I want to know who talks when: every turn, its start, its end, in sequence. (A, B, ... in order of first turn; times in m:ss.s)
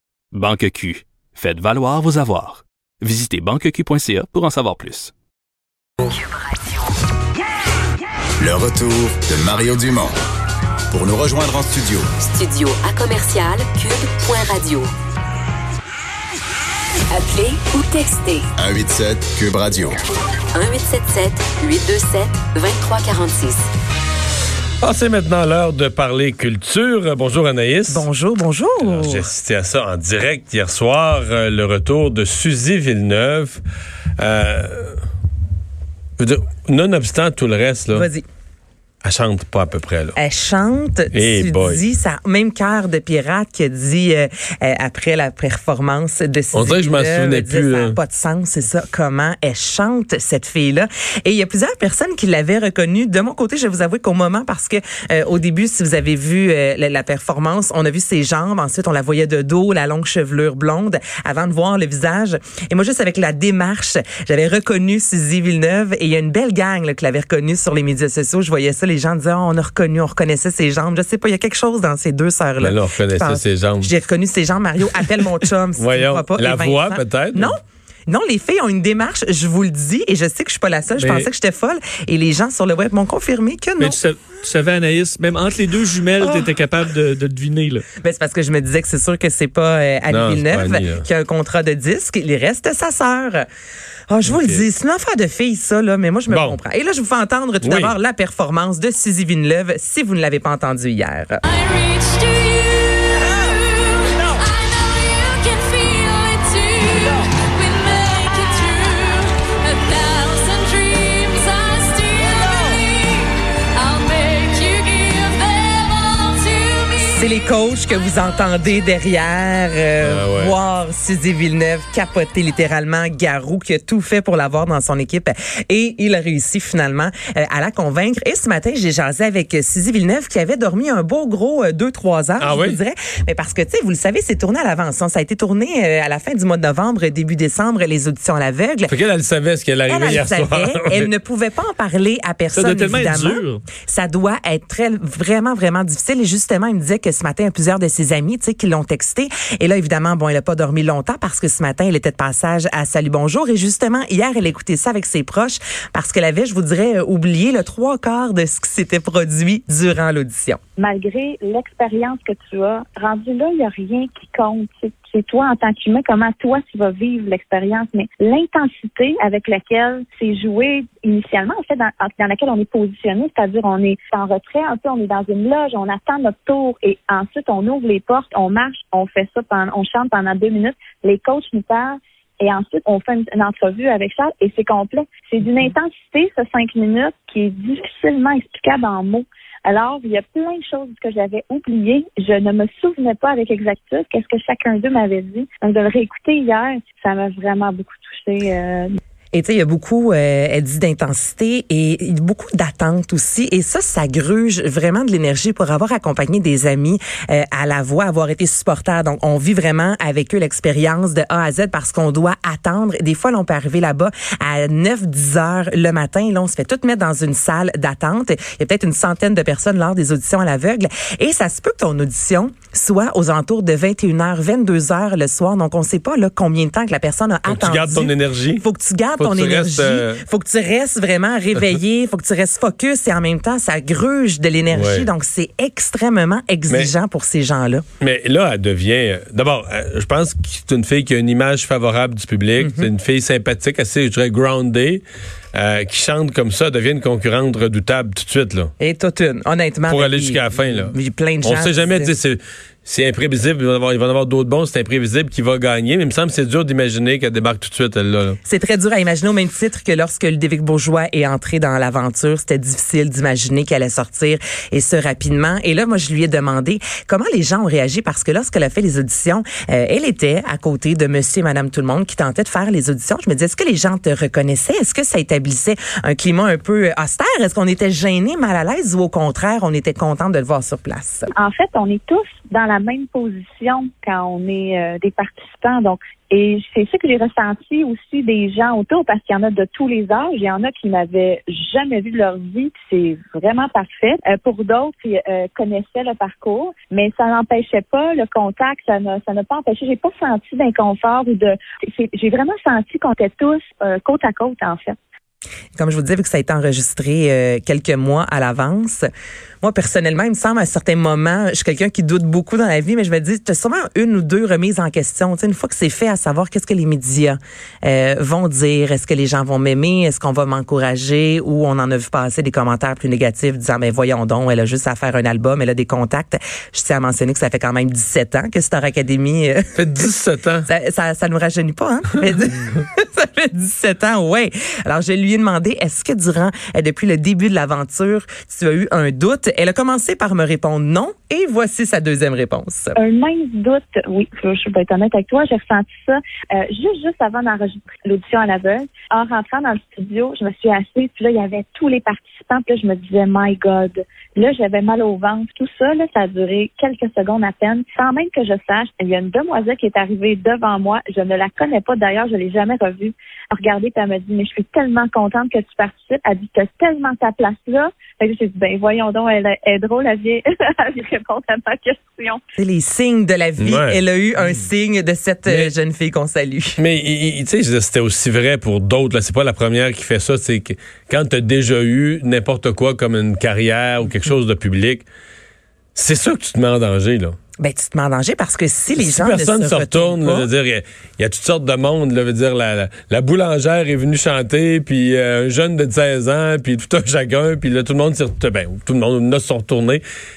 0:00.3-0:05.1 A
0:08.4-0:10.1 B
0:10.9-0:12.1 B
0:12.2-0:14.9 C
0:17.1-0:18.5 C
0:18.6-0:20.0 B
0:20.5-0:23.7 C
0:24.8-0:28.1 D
0:27.9-0:29.3 E
0:28.8-0:33.6 D
0:34.2-0:35.0 D
0:36.2-0:38.1 D
0:37.9-0:38.2 E
0:39.0-0:40.2 D
0:40.2-1:24.0 E
0:41.1-0:41.8 D
0:46.5-0:48.0 D
1:12.6-1:13.9 D
1:15.8-1:17.6 D
1:21.0-1:21.3 F
1:23.8-1:27.8 F
1:28.0-1:33.5 E
1:30.1-1:31.0 D
1:34.1-1:41.4 E
1:34.3-1:34.6 D
1:36.3-1:36.6 D
1:37.6-1:38.0 D
1:41.5-1:53.1 G
1:42.1-1:42.6 H
1:45.1-1:45.4 H
1:52.2-1:52.7 H
1:53.8-1:56.9 G
1:57.0-2:18.9 E
2:00.0-2:00.6 D
2:12.4-2:12.8 D
2:18.9-2:21.1 D
2:19.9-2:40.6 E
2:22.5-2:23.6 F
2:40.8-3:19.0 H
3:19.3-3:57.8 E
3:47.5-3:50.2 D
3:54.7-3:55.1 D
3:56.7-3:57.0 D
3:58.0-4:08.7 D
4:02.6-4:02.9 E
4:08.8-4:12.1 E
4:09.9-4:18.4 D
4:18.4-4:41.3 E
4:41.4-5:05.0 H
5:05.8-5:09.1 E
5:09.6-5:30.1 E
5:29.8-5:30.7 D
5:30.7-5:43.0 E
5:43.0-6:12.4 H
6:12.6-6:16.8 E
6:13.6-6:14.0 D
6:15.5-6:15.7 D
6:16.8-6:25.0 D
6:26.0-6:27.4 D
6:27.6-6:30.5 E
6:29.0-6:40.0 D